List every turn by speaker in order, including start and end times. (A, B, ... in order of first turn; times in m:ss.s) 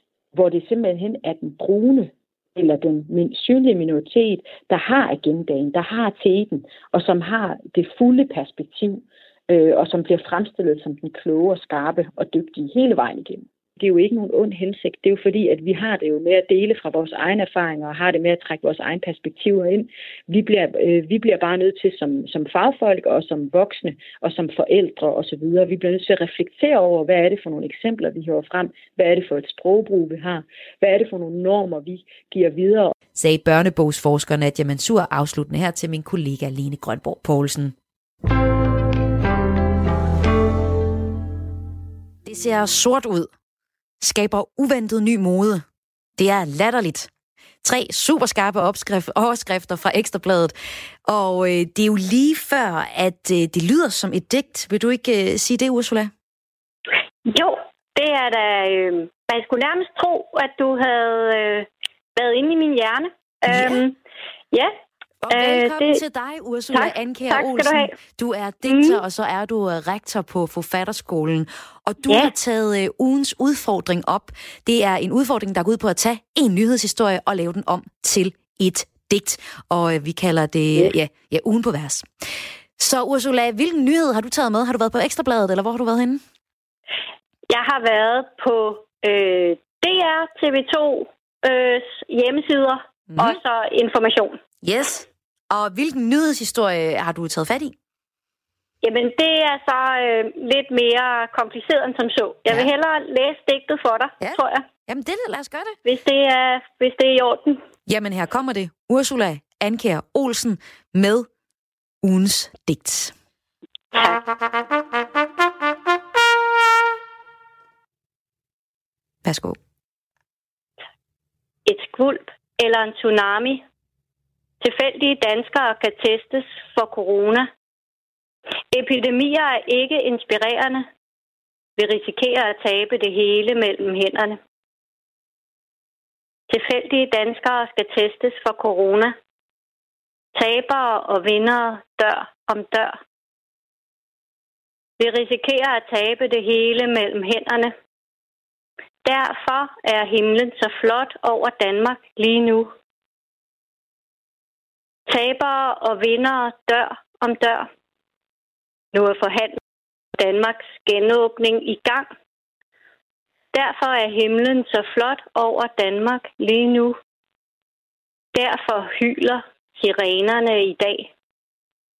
0:00.3-0:32.9 A
0:33.2-0:37.7 B
0:42.2-0:43.3 B
0:44.0-0:45.6 B
0:46.2-0:47.1 B
0:47.6-0:50.5 B
0:51.0-0:56.1 B
0:57.2-1:04.0 C
1:03.5-1:03.8 B
1:05.2-1:22.0 B
1:05.3-1:06.0 C
1:06.7-1:07.9 C
1:08.6-1:09.0 C
1:22.8-1:26.2 B
1:27.5-1:34.4 C
1:33.1-1:33.4 B
1:34.6-1:37.7 B
1:38.8-1:44.6 C
1:44.2-1:45.8 B
1:45.8-1:47.6 C
1:47.9-1:51.3 B
1:52.0-1:53.1 B
1:53.9-1:54.2 C
1:59.2-1:59.6 B
2:01.6-2:03.6 C
2:04.6-2:07.5 C
2:08.7-2:10.9 C
2:11.8-2:14.4 C
2:16.5-2:19.1 C
2:20.4-2:23.0 C
2:25.0-2:27.7 C
2:29.0-2:32.7 C
2:35.1-2:37.7 C
2:38.9-2:39.6 C
2:40.2-2:42.1 C
2:43.5-2:47.0 C
2:48.3-2:51.1 C